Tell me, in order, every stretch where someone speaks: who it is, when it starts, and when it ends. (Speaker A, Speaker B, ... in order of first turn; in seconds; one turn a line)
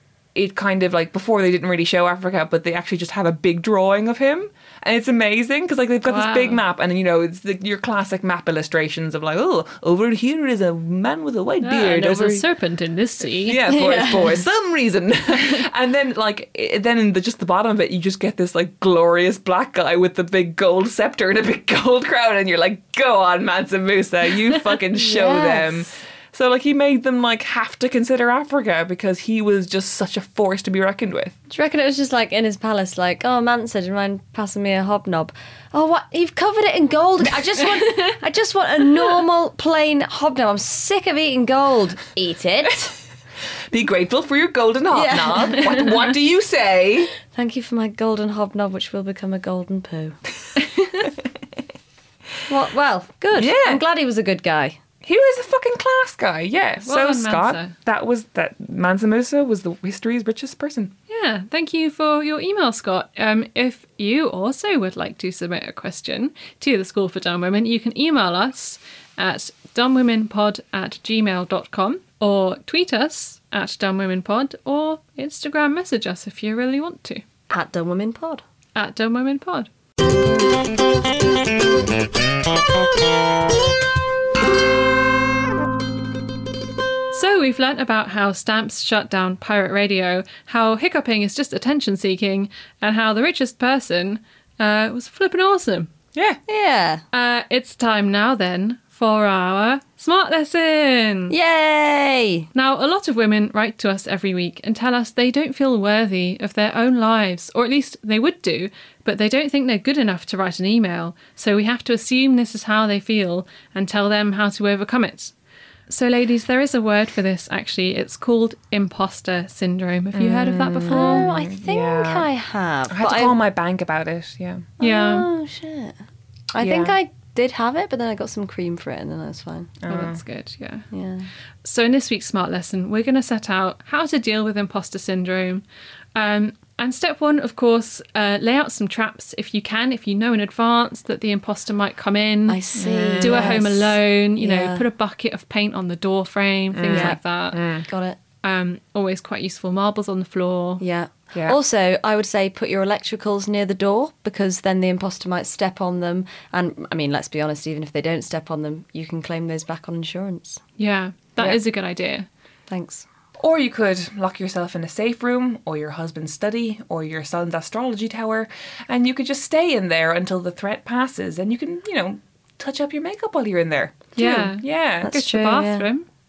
Speaker A: 0.3-12.4
Speaker B: 6.0-6.6
Speaker B: 11.6-13.6
Speaker A: 13.4-31.4
Speaker C: 13.6-14.4
Speaker C: 24.9-25.9
Speaker C: 31.5-42.9
Speaker A: 43.7-47.1
Speaker C: 44.9-46.0
Speaker C: 47.2-50.1
Speaker C: 52.5-54.8
Speaker A: 53.3-53.8
Speaker A: 55.0-60.9
Speaker B: 56.8-57.7
Speaker B: 61.1-77.2
Speaker C: 77.5-78.4
Speaker B: 78.8-79.7
Speaker B: 87.1-95.9
Speaker C: 96.5-97.0
Speaker B: 97.1-101.3
Speaker C: 101.3-102.5
Speaker B: 102.5-115.3
Speaker B: 115.9-121.3
Speaker A: 120.1-122.3
Speaker C: 120.9-123.4
Speaker A: 122.9-124.7
Speaker B: 124.8-125.3
Speaker C: 124.8-126.0
Speaker C: 126.5-129.8
Speaker A: 126.6-127.0
Speaker A: 129.8-130.2
Speaker B: 129.9-130.8
Speaker C: 130.9-131.3
Speaker B: 131.6-135.6
Speaker B: 136.1-142.6
Speaker C: 142.5-144.8
Speaker A: 142.8-143.6
Speaker B: 143.2-147.6
Speaker A: 146.7-147.8
Speaker C: 146.9-147.2
Speaker C: 147.8-148.2
Speaker B: 148.4-150.8
Speaker C: 150.8-160.6
Speaker B: 160.8-162.3
Speaker C: 162.7-163.1
Speaker A: 163.4-175.1
Speaker B: 174.2-176.1
Speaker C: 174.2-174.5
Speaker C: 175.0-175.9